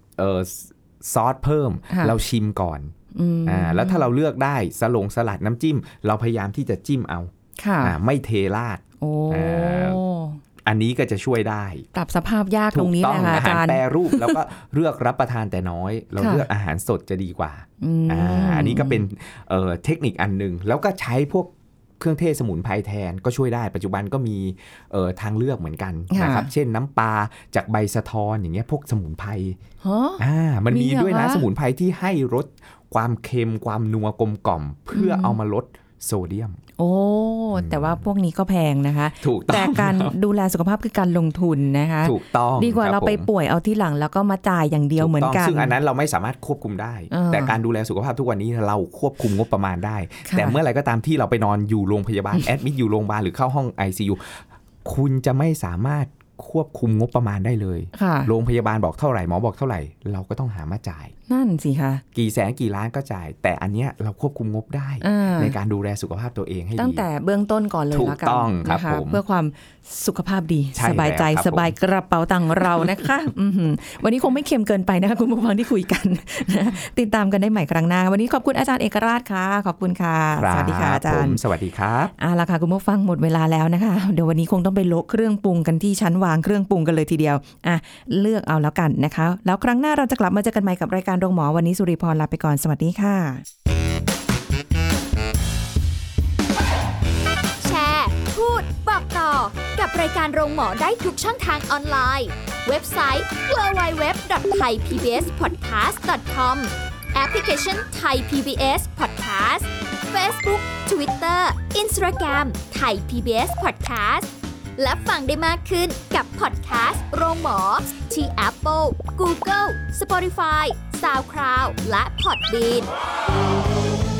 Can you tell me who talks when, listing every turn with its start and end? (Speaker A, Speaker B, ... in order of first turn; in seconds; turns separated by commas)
Speaker A: 0.2-2.9, Speaker B: 1.9-2.1, Speaker B: 3.1-4.1, Speaker A: 3.5-7.3, Speaker B: 7.6-8.0, Speaker A: 7.8-10.0, Speaker B: 9.0-10.4, Speaker A: 10.6-11.9, Speaker B: 11.9-14.4, Speaker A: 12.7-29.6, Speaker B: 16.2-16.5, Speaker B: 17.8-19.0, Speaker B: 26.1-26.5, Speaker B: 29.8-31.4, Speaker A: 30.2-36.6, Speaker B: 34.9-35.4, Speaker B: 36.8-45.7, Speaker A: 37.5-38.0, Speaker A: 39.2-40.1, Speaker A: 42.0-43.3, Speaker A: 45.0-61.1, Speaker B: 47.1-47.6, Speaker B: 50.2-50.6, Speaker B: 57.9-58.3, Speaker B: 61.3-62.0, Speaker A: 62.1-67.1, Speaker B: 65.0-65.5, Speaker B: 66.8-81.4, Speaker A: 67.9-69.2, Speaker A: 70.7-71.7, Speaker A: 72.6-73.1, Speaker A: 80.3-82.1, Speaker B: 82.2-93.4, Speaker C: 97.6-122.9